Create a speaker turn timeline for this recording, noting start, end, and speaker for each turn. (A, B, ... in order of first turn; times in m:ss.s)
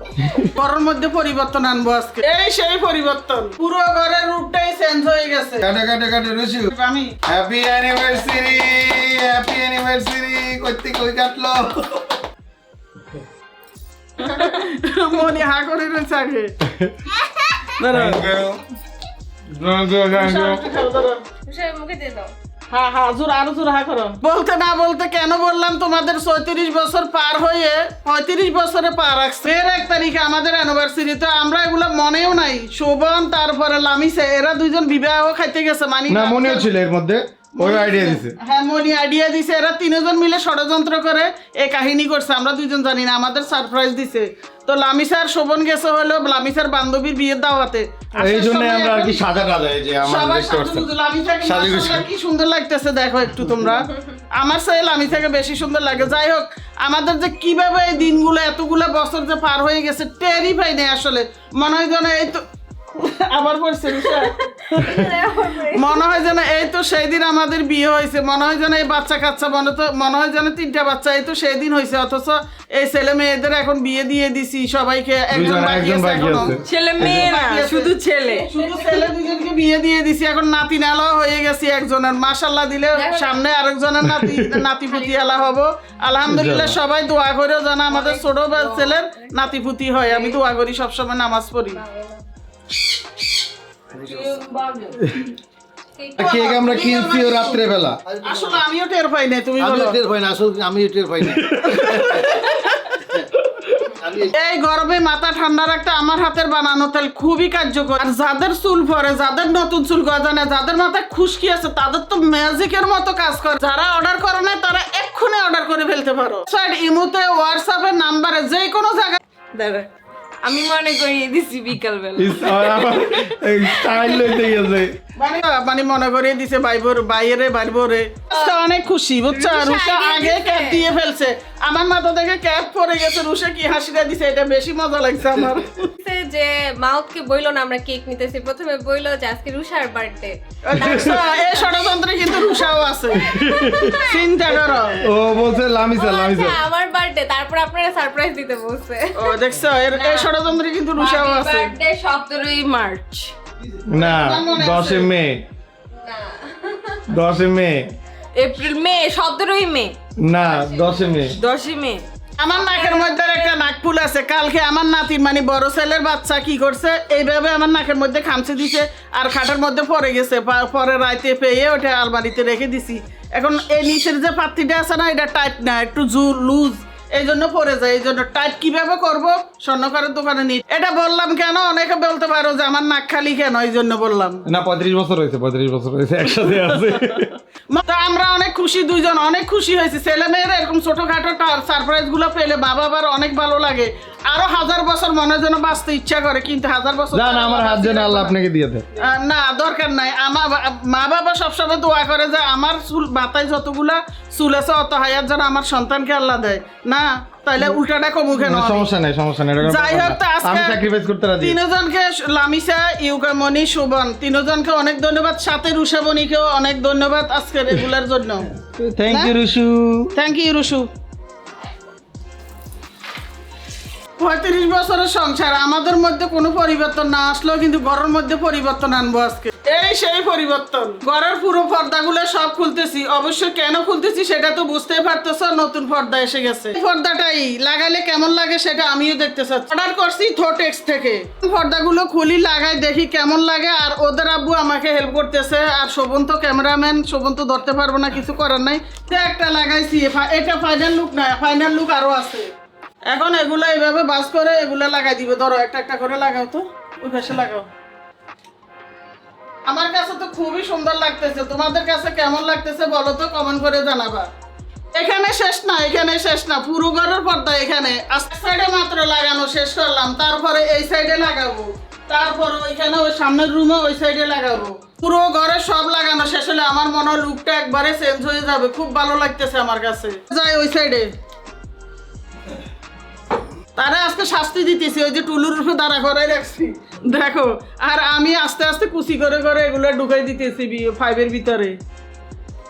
0:00.2-0:00.5 A
0:00.4-0:05.6 B
0:05.6-0:06.7 A
0:06.7-0:07.2 B
0:07.3-0:12.2 A
0:14.2-0:16.5 B
0:16.6-0:16.9 A
0:17.2-0:17.5 C
0:17.8-0:18.3 B
0:17.9-0:18.6 A
0:19.5-0:20.6 A
0:20.1-0:21.2 B
0:21.4-0:22.3 C
0:22.7-0:36.7 B
0:36.1-0:38.4 A
0:37.6-0:49.2 B
0:48.2-0:52.1 A
0:50.0-1:05.1 B
0:53.4-0:53.8 A
1:04.2-1:06.1 C
1:05.7-1:31.8 B
1:15.3-1:17.3 A
1:16.6-1:18.5 D
1:22.9-1:23.4 C
1:24.0-1:24.7 A
1:24.9-1:25.4 C
1:26.3-1:26.8 A
1:28.0-1:29.5 C
1:30.0-1:30.4 C
1:31.7-1:32.2 C
1:33.9-1:34.4 E
1:34.1-1:35.0 D
1:35.0-1:35.3 A
1:36.0-1:37.6 C
1:36.2-1:38.0 A
1:36.2-1:37.5 B
1:38.0-1:38.6 E
1:38.2-1:40.0 B
1:39.6-1:42.0 E
1:41.2-1:42.2 A
1:41.6-1:43.0 B
1:43.4-1:44.1 A
1:44.0-1:44.3 E
1:44.2-1:59.2 B
1:59.5-1:59.9 D
2:00.4-2:04.3 D
2:02.2-2:04.9 A
2:05.2-2:15.9 B
2:09.3-2:10.5 D
2:09.6-2:10.8 C
2:16.0-2:24.2 C
2:20.6-2:23.4 B
2:20.8-2:21.2 A
2:23.2-2:24.0 A
2:23.9-2:25.0 B
2:24.9-2:26.6 A
2:25.9-2:29.4 C
2:29.2-2:31.7 B
2:29.9-2:30.3 D
2:30.9-2:33.3 D
2:33.9-2:35.4 A
2:33.9-2:35.1 B
2:36.0-2:37.0 C
2:37.1-2:37.9 A
2:38.4-2:40.0 D
2:40.2-2:41.3 A
2:40.5-2:41.0 C
2:41.3-2:42.0 D
2:42.4-3:04.4 B
2:42.5-2:43.5 C
3:04.4-3:07.4 A
3:07.7-3:18.3 B
3:17.1-3:18.8 A
3:19.0-3:28.9 B
3:28.3-3:31.6 A
3:29.6-3:30.8 B
3:31.4-3:38.5 B
3:38.6-3:40.1 A
3:40.1-3:40.9 B
3:44.2-4:12.5 B
4:13.1-4:17.7 B
4:19.7-4:24.3 B
4:24.9-4:41.1 B
4:43.8-4:51.8 B